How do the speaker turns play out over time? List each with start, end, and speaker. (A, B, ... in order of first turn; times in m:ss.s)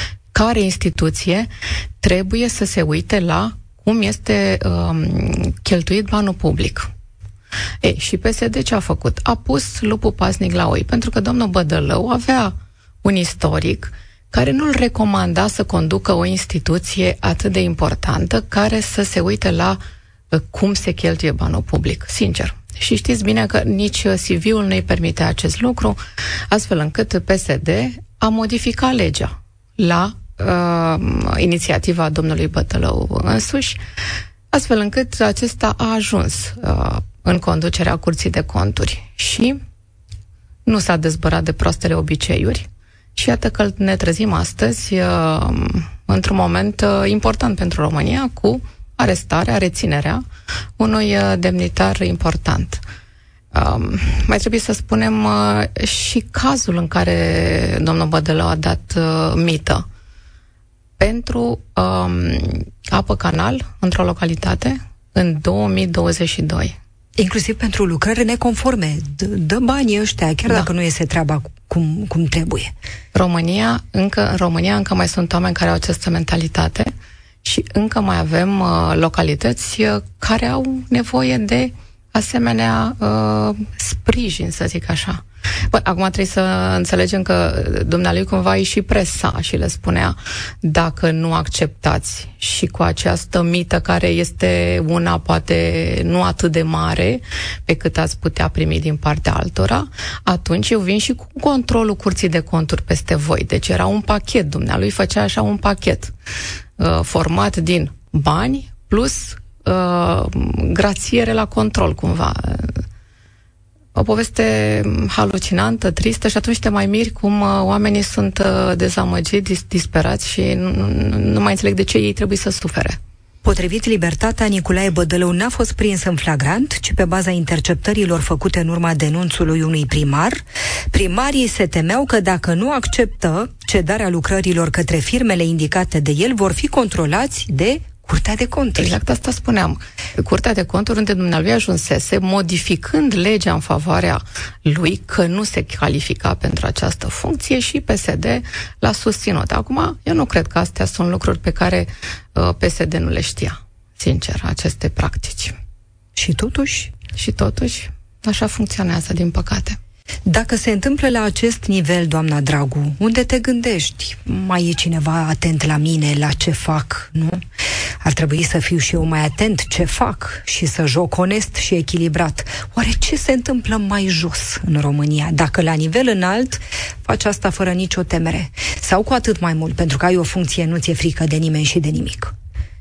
0:00.3-0:01.5 A
0:02.0-0:06.9 A
0:07.8-0:19.8 A
0:20.3-0:26.0 A
0:26.5-0:33.8 A
0:34.5-0:39.6 A
0:40.6-0:50.2 A
0:50.8-0:52.8 A
0:53.5-0:59.8 A
1:01.0-1:06.8 A
1:07.2-1:12.7 B
1:13.1-1:16.9 A
1:17.4-1:46.1 A
1:46.8-1:52.8 A
1:53.9-2:03.0 A
2:03.4-2:18.9 B
2:18.8-2:35.5 A
2:36.2-2:36.9 B
2:37.1-2:39.8 A
2:40.2-2:47.4 B
2:48.0-3:02.3 B